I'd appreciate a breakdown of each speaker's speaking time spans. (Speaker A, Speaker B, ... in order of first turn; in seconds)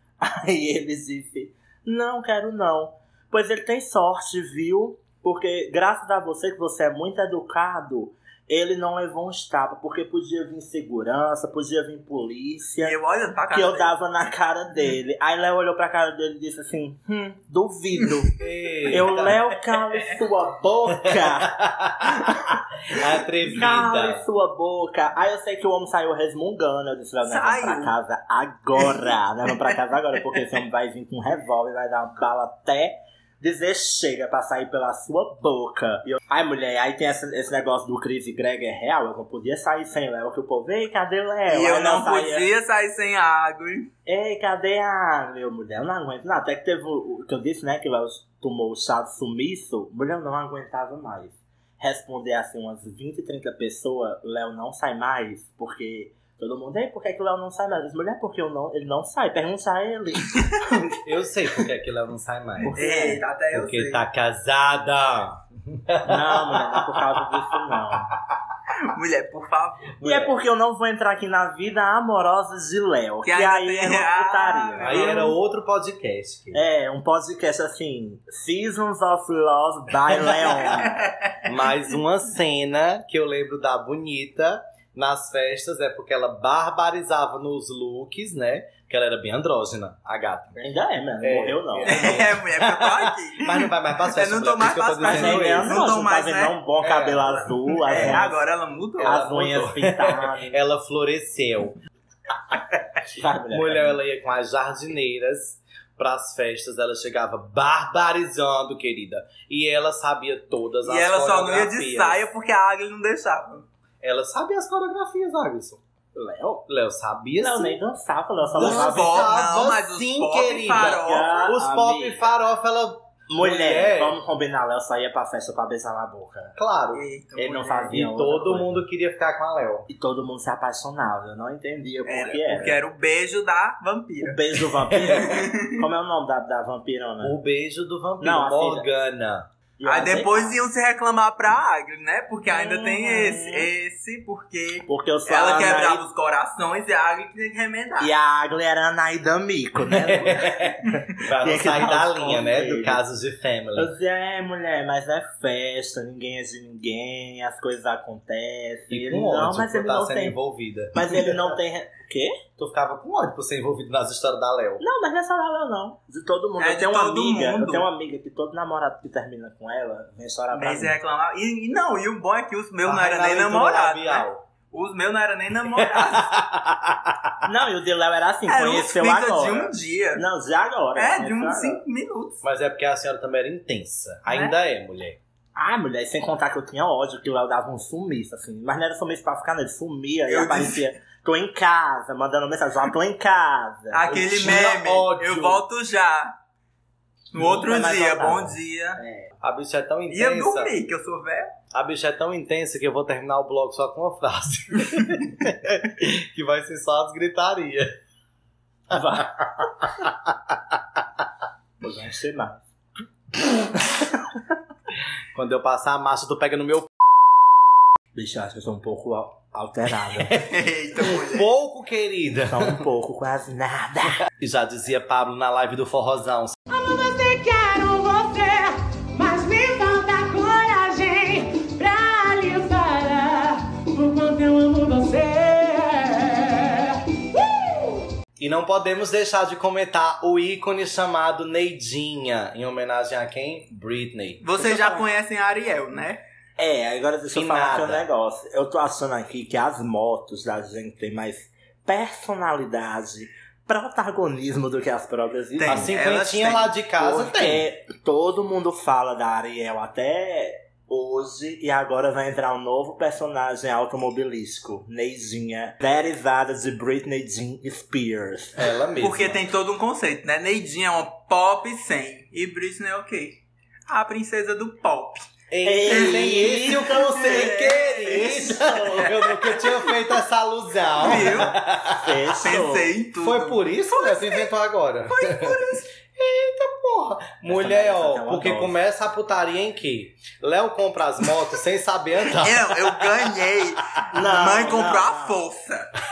Speaker A: 0.2-12.9, 13.5-18.3, 18.9-23.0, 23.5-42.5, 44.1-60.7, 62.6-63.2, 66.0-68.1, 70.0-75.2, 76.5-81.0, 90.6-92.1, 95.0-98.3, 99.0-100.6, 103.1-104.0, 116.2-116.7, 117.4-119.3, 120.7-122.3, 123.3-126.5, 127.4-128.8, 129.9-132.8, 134.2-137.4, 138.2-138.9, 139.8-140.6, 142.5-143.7, 144.9-146.1, 148.0-150.7, 151.4-153.0, 153.8-160.4, 160.9-162.4, 164.8-170.9, 177.4-181.8, 185.6-194.2, 197.3-199.3, 208.9-209.7, 211.8-212.6, 218.2-220.3, 222.5-224.2, 244.6-245.0, 246.6-255.9, 257.0-268.6, 275.6-279.1, 281.5-282.9, 287.5-288.8, 294.1-295.4
Speaker B: 12.8-13.9, 27.2-27.9, 41.5-43.9, 62.8-64.0, 68.8-69.9, 73.2-75.4, 80.7-81.5, 91.8-96.6, 97.9-99.2, 110.8-113.7, 118.5-121.5, 126.9-127.9, 132.1-135.8, 139.8-148.1, 166.6-167.9, 170.5-176.3, 178.5-180.2, 181.0-182.4, 184.3-184.6, 190.3-190.8, 193.9-196.3, 197.3-199.0, 200.1-201.5, 220.4-221.5, 244.4-246.2, 255.6-256.8, 269.0-275.3, 275.9-280.0, 281.0-281.5, 282.4-284.5, 285.1-285.9, 292.3-295.9
Speaker C: 18.4-19.4, 21.1-22.3, 22.9-24.2, 61.0-62.7, 63.5-67.6, 70.0-70.3, 74.8-76.6, 81.5-90.6, 91.2-95.9, 96.8-98.2, 99.0-101.8, 103.5-112.2, 114.0-115.8, 116.7-117.8, 118.5-124.2, 126.6-127.0, 127.9-129.9, 135.1-135.3, 137.2-139.5, 149.9-153.9, 158.9-161.4, 162.6-164.8, 172.8-174.4, 175.7-177.2, 182.4-185.2, 194.1-195.6, 199.4-200.7, 201.7-207.9, 215.3-217.0, 220.4-222.8, 224.4-226.6, 238.4-244.6, 247.3-248.1, 255.7-257.7, 268.6-269.4, 275.5-282.3, 283.2-293.0
Speaker D: 226.7-238.1